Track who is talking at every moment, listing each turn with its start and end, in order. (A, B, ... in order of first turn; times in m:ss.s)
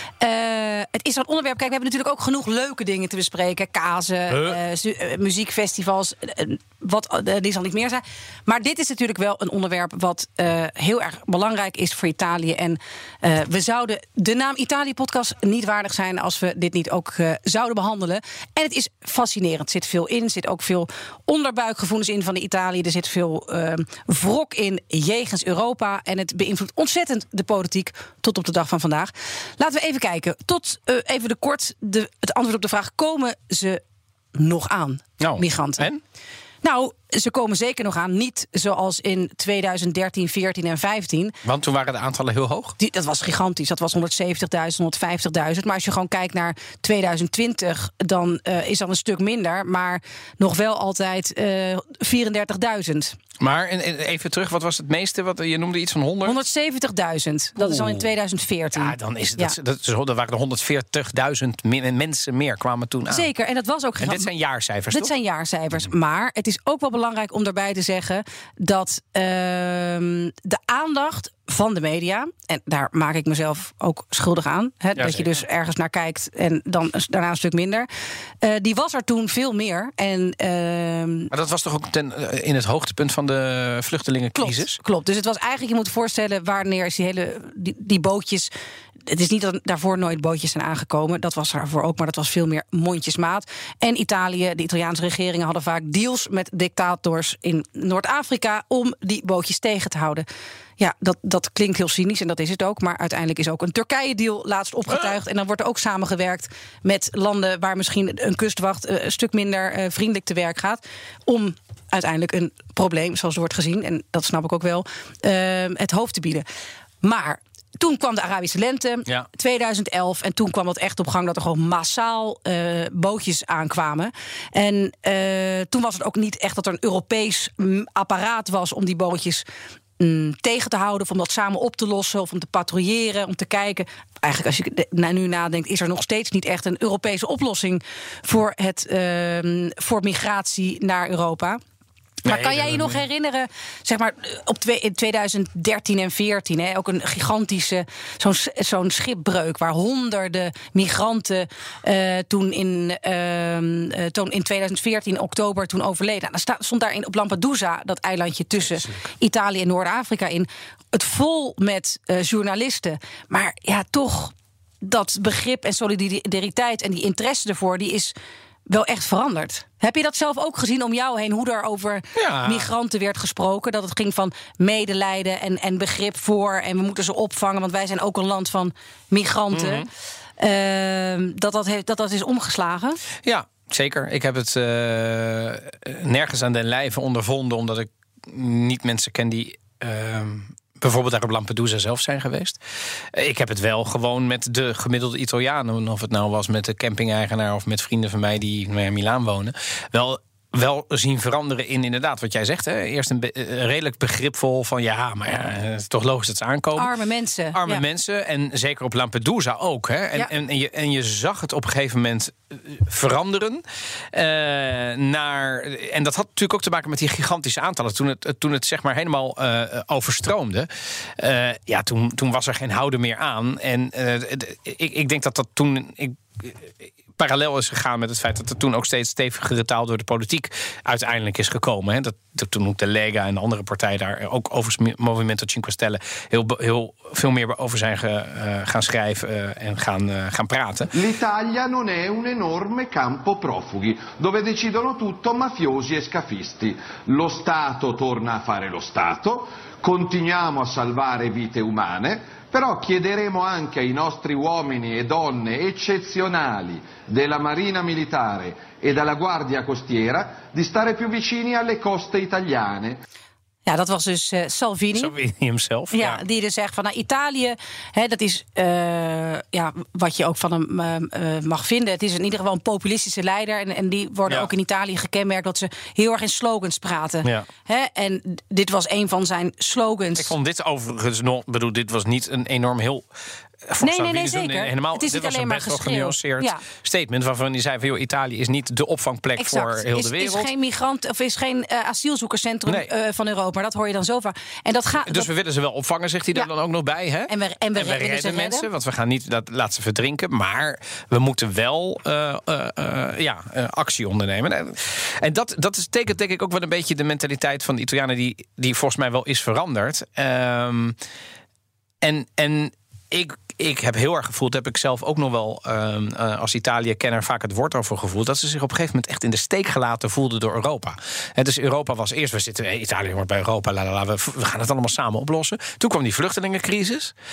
0:00.2-0:33.8 A
0:04.3-0:04.6 B
0:34.3-0:35.9 A
0:35.2-0:36.0 B
0:36.6-0:41.3 A
0:41.4-0:42.7 B
0:42.8-0:53.2 A
0:53.4-0:56.4 B
0:56.2-0:59.5 A
0:57.6-0:58.0 B
0:58.7-1:03.3 B
1:03.1-1:04.3 A
1:04.0-1:05.1 B
1:04.9-1:17.9 A
1:15.0-1:15.3 B
1:18.4-1:21.3 A
1:21.3-1:24.8 B
1:24.4-1:28.5 A
1:29.1-1:40.2 A
1:40.8-1:56.4 A
1:57.0-2:09.4 A
2:10.0-2:21.6 A
2:22.2-2:48.1 A
2:22.2-2:23.0 B
2:38.7-2:39.0 B
2:48.7-2:59.8 A
2:52.2-2:52.7 B
2:59.5-2:59.8 B
3:00.4-3:03.0 A
3:03.2-3:12.6 B
3:13.1-3:26.9 B
3:26.8-3:27.8 A
3:27.5-4:00.9 B
4:00.9-4:23.0 C
4:23.6-4:25.1 A
4:24.9-4:26.2 B
4:25.9-4:40.3 A
4:40.2-4:43.0 B
4:43.7-4:50.5 B
4:43.8-4:46.6 A
4:49.4-4:55.3 A
4:55.0-5:10.9 B
4:57.3-4:58.7 A
5:12.0-5:27.1 B